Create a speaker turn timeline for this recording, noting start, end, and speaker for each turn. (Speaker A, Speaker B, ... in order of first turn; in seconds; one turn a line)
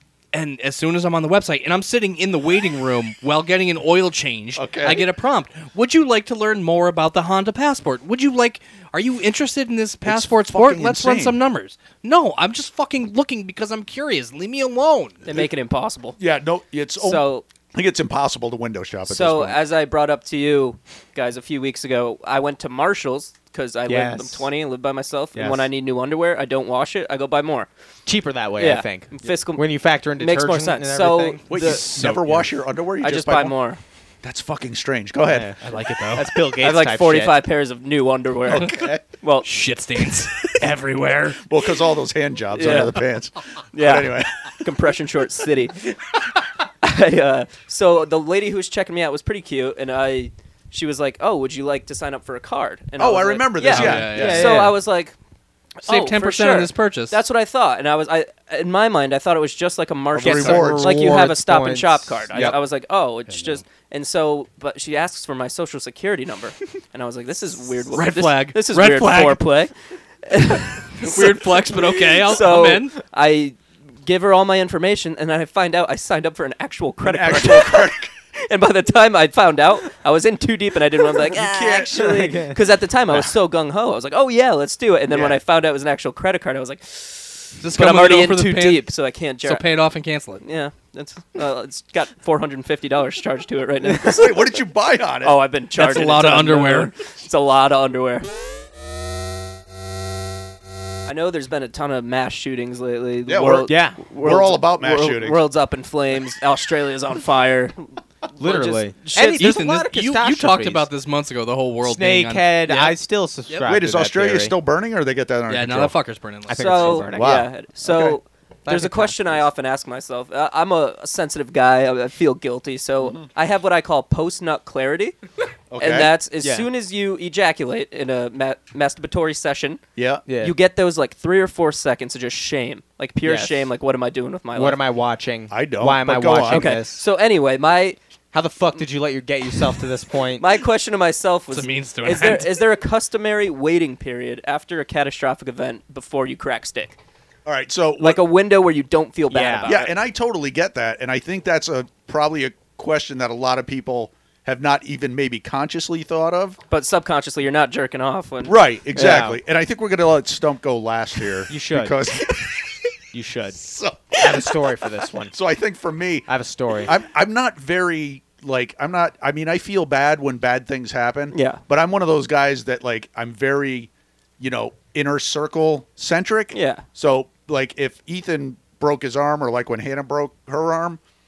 Speaker A: 0.3-15.2
Speaker B: 4.5-5.0
Speaker B: 10.0-11.3
Speaker C: 15.2-16.2
Speaker B: 16.2-19.6
Speaker C: 17.0-17.4
Speaker C: 19.1-27.7
Speaker D: 23.9-24.5
Speaker D: 25.3-25.7
Speaker D: 28.1-31.5
Speaker C: 28.6-31.9
Speaker B: 31.5-33.5
Speaker A: 31.6-32.5
Speaker C: 33.0-33.8
Speaker B: 34.2-35.5
Speaker D: 35.3-35.6
Speaker A: 35.6-36.2
Speaker D: 36.1-37.4
Speaker C: 36.6-39.5
Speaker B: 38.5-39.0
Speaker A: 39.4-41.4
Speaker B: 41.4-44.7
Speaker C: 42.5-43.0
Speaker C: 43.7-45.8
Speaker C: 46.8-55.1
Speaker B: 53.0-54.6
Speaker A: 53.6-54.7
Speaker D: 53.8-54.8
Speaker C: 55.8-69.7
Speaker A: 55.8-57.2
Speaker B: 60.1-61.1
Speaker D: 60.2-62.2
Speaker A: 63.3-63.6
Speaker A: 67.9-69.4
Speaker C: 70.2-89.6
Speaker A: 71.0-73.0
Speaker B: 77.0-78.1
Speaker B: 81.3-82.0
Speaker D: 81.9-82.6
Speaker B: 85.1-85.4
Speaker A: 87.6-88.9
Speaker A: 89.4-90.4
Speaker C: 90.4-94.6
Speaker B: 94.0-95.4
Speaker C: 95.2-98.3
Speaker A: 95.7-96.9
Speaker C: 101.0-109.5
Speaker B: 103.2-105.4
Speaker D: 103.7-104.0
Speaker D: 108.4-110.9
Speaker A: 109.4-113.0
Speaker D: 111.8-114.5
Speaker B: 113.7-115.9
Speaker A: 115.5-117.0
Speaker D: 116.5-117.5
Speaker C: 116.5-125.2
Speaker B: 117.1-118.2
Speaker D: 118.6-119.5
Speaker B: 125.7-126.1
Speaker C: 125.8-129.8
Speaker D: 126.4-126.7
Speaker B: 129.9-130.2
Speaker D: 130.3-130.5
Speaker C: 130.4-134.8
Speaker D: 133.2-133.7
Speaker D: 134.5-137.0
Speaker B: 135.5-136.8
Speaker C: 136.4-138.0
Speaker D: 138.3-140.5
Speaker C: 140.4-147.0
Speaker A: 141.5-142.6
Speaker B: 147.4-148.2
Speaker C: 148.0-149.9
Speaker D: 149.3-149.7
Speaker B: 149.6-156.6
Speaker C: 156.7-159.2
Speaker B: 158.4-162.7
Speaker D: 158.9-159.4
Speaker D: 161.5-161.9
Speaker D: 163.1-163.6
Speaker B: 163.5-164.6
Speaker D: 164.1-165.3
Speaker B: 165.3-166.3
Speaker D: 166.3-166.9
Speaker B: 166.8-181.0
Speaker C: 171.3-171.6
Speaker C: 176.5-176.8